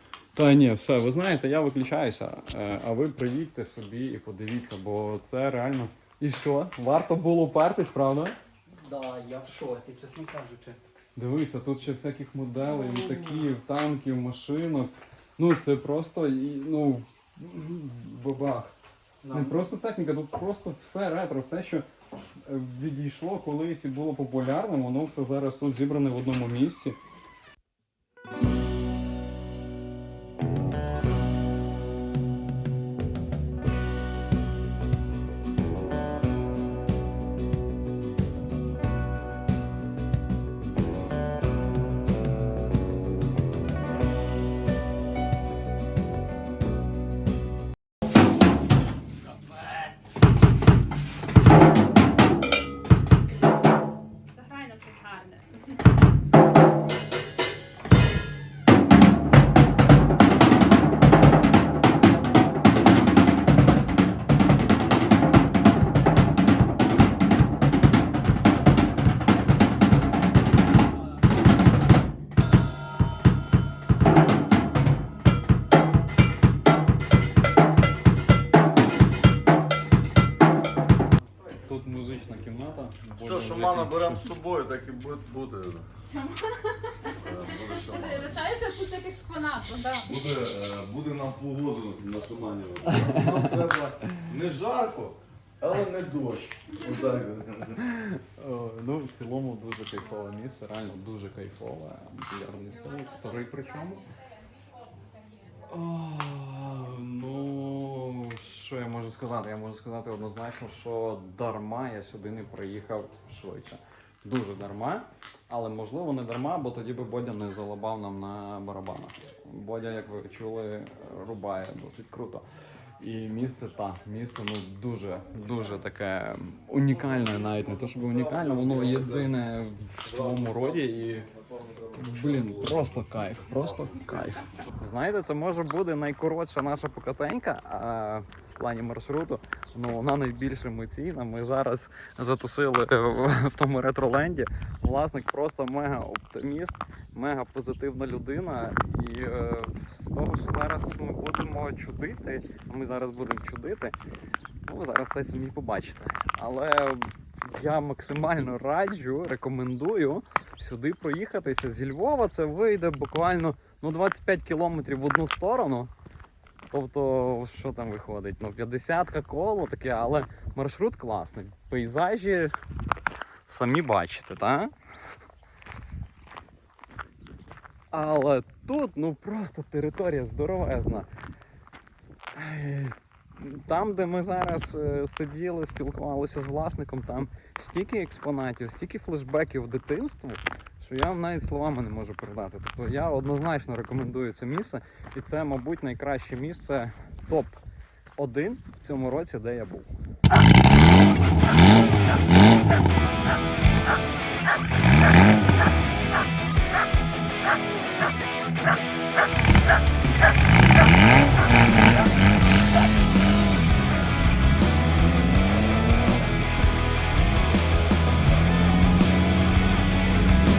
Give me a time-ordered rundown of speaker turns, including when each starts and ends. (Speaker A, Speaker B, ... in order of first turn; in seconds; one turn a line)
Speaker A: 0.3-8.3
Speaker B: 8.8-10.8
Speaker A: 11.2-18.7
Speaker B: 12.8-13.4
Speaker B: 19.2-19.6
Speaker A: 19.3-21.9
Speaker A: 22.4-27.0
Speaker C: 54.3-55.8
Speaker A: 81.6-84.3
Speaker D: 83.2-85.9
Speaker C: 86.1-90.1
Speaker D: 87.2-88.4
Speaker D: 90.0-97.8
Speaker A: 98.0-104.1
Speaker C: 102.8-105.5
Speaker A: 105.6-122.5
Speaker A: 123.0-131.3
Speaker D: 127.6-129.3
Speaker D: 130.0-133.0
Speaker A: 132.0-153.9
Speaker A: 154.7-165.9
Speaker A: 166.7-172.6
Speaker A: 173.5-174.7
Speaker A: 177.9-181.1
Speaker A: 182.3-197.6
Speaker A: 198.2-199.9